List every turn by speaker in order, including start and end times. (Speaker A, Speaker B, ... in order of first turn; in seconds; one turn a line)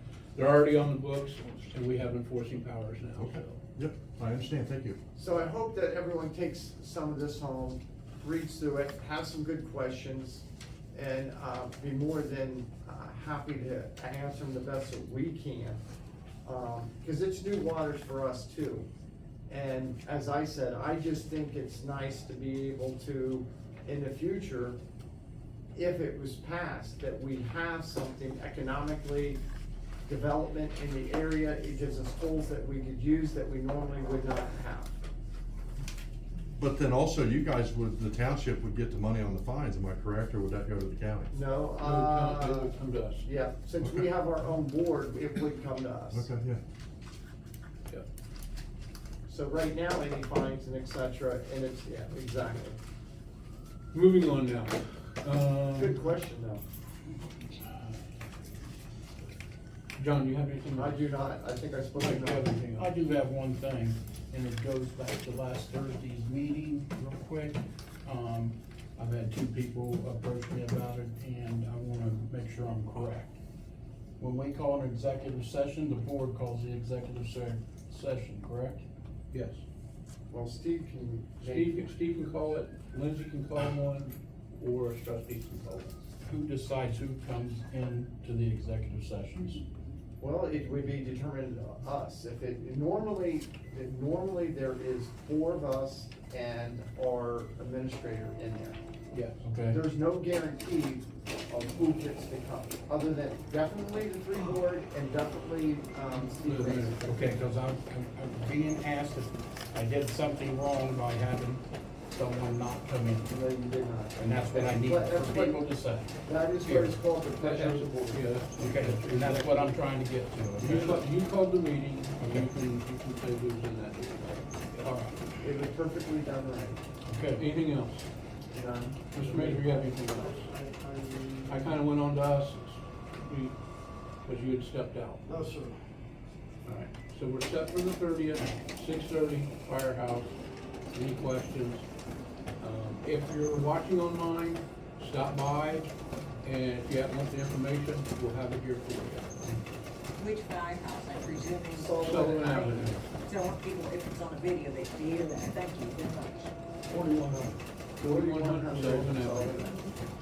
Speaker A: 0.3-3.6
Speaker B: 3.1-5.0
Speaker C: 5.2-15.8
Speaker C: 16.4-18.9
Speaker C: 19.5-24.8
Speaker C: 25.8-29.4
Speaker C: 30.1-35.0
Speaker B: 36.6-41.3
Speaker C: 41.3-46.3
Speaker A: 41.8-43.3
Speaker B: 46.1-46.6
Speaker C: 49.3-52.8
Speaker A: 53.9-56.0
Speaker C: 55.7-56.6
Speaker A: 60.0-61.0
Speaker C: 60.8-62.7
Speaker A: 62.0-62.9
Speaker D: 62.8-73.3
Speaker D: 74.2-78.8
Speaker A: 79.3-79.6
Speaker C: 80.3-81.9
Speaker A: 81.4-86.0
Speaker D: 86.2-89.6
Speaker C: 90.2-98.8
Speaker A: 99.1-99.4
Speaker D: 99.4-99.8
Speaker C: 99.7-107.0
Speaker A: 106.1-107.4
Speaker D: 107.1-113.3
Speaker C: 113.3-115.7
Speaker D: 114.2-117.0
Speaker C: 116.2-118.4
Speaker A: 117.4-119.8
Speaker D: 118.6-121.1
Speaker A: 120.6-125.1
Speaker D: 122.2-122.5
Speaker D: 124.8-125.1
Speaker C: 125.4-126.8
Speaker D: 127.1-127.4
Speaker A: 127.4-128.1
Speaker C: 128.5-129.7
Speaker A: 129.1-130.5
Speaker C: 130.4-131.5
Speaker A: 131.5-133.6
Speaker A: 134.2-135.5
Speaker C: 135.3-135.6
Speaker A: 136.7-140.3
Speaker A: 140.9-141.9
Speaker A: 142.6-149.4
Speaker E: 150.2-156.5
Speaker C: 151.7-152.9
Speaker A: 152.0-153.0
Speaker C: 157.2-159.9
Speaker A: 158.0-159.7